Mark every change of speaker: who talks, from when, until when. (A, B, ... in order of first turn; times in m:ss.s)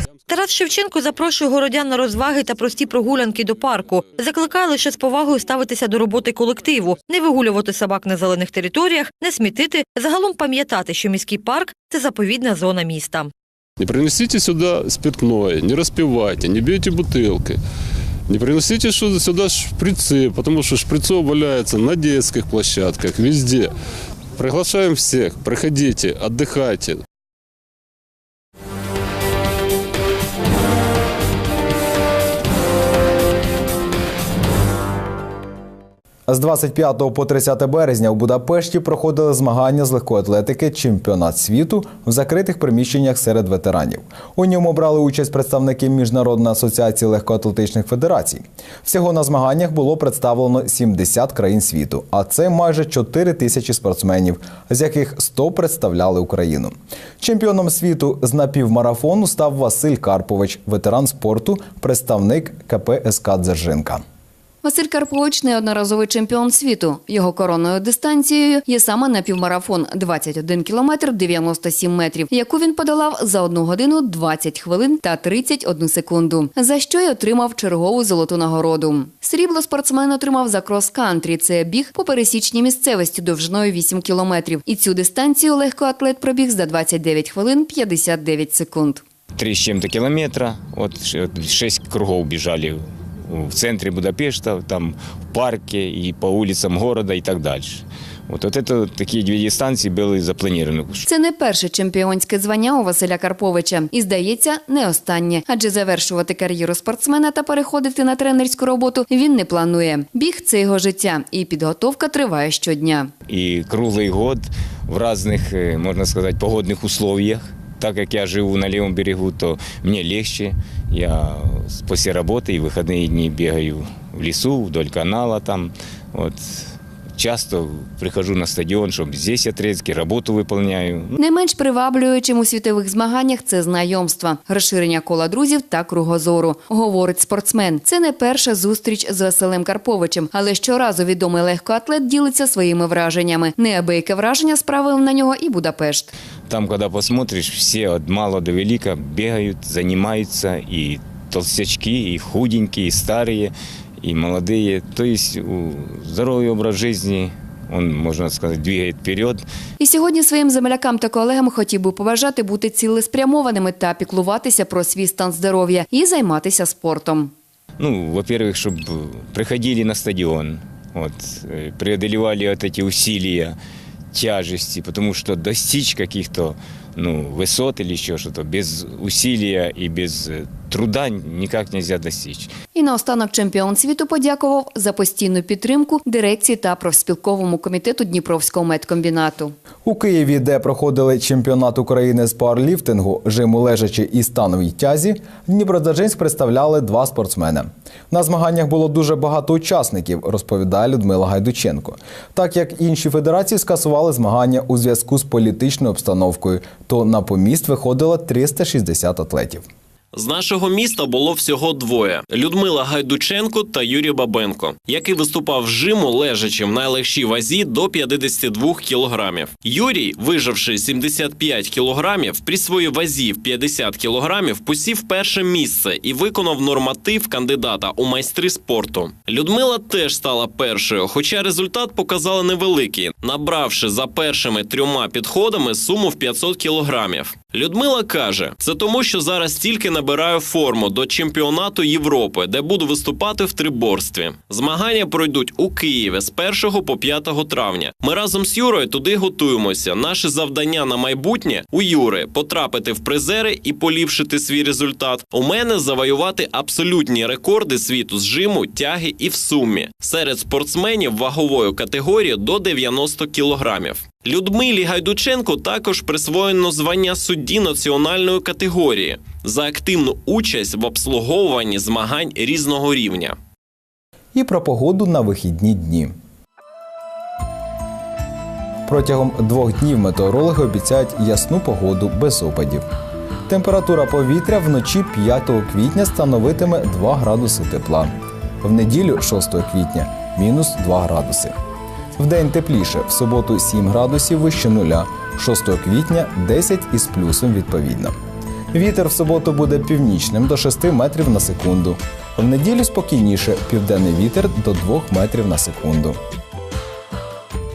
0:00.3-0:13.3 A
0:13.8-0:17.6 B
0:18.3-0:23.7 B
0:24.4-0:27.0 B
0:36.3-1:04.0 C
1:04.6-1:29.0 D
1:29.4-1:41.0 E
1:41.0-1:53.1 D
1:53.3-2:11.2 E
2:11.2-2:26.1 D
2:26.5-2:39.4 E
2:39.8-2:47.3 D
2:47.8-2:53.6 E
2:54.1-3:02.5 E
3:02.7-3:09.5 D
3:09.8-3:29.6 C
3:30.1-4:33.4 F
4:34.3-4:36.1 C
4:38.9-4:42.8 C
4:43.5-4:51.5 C
4:52.2-4:58.1 C
4:58.7-5:06.2 C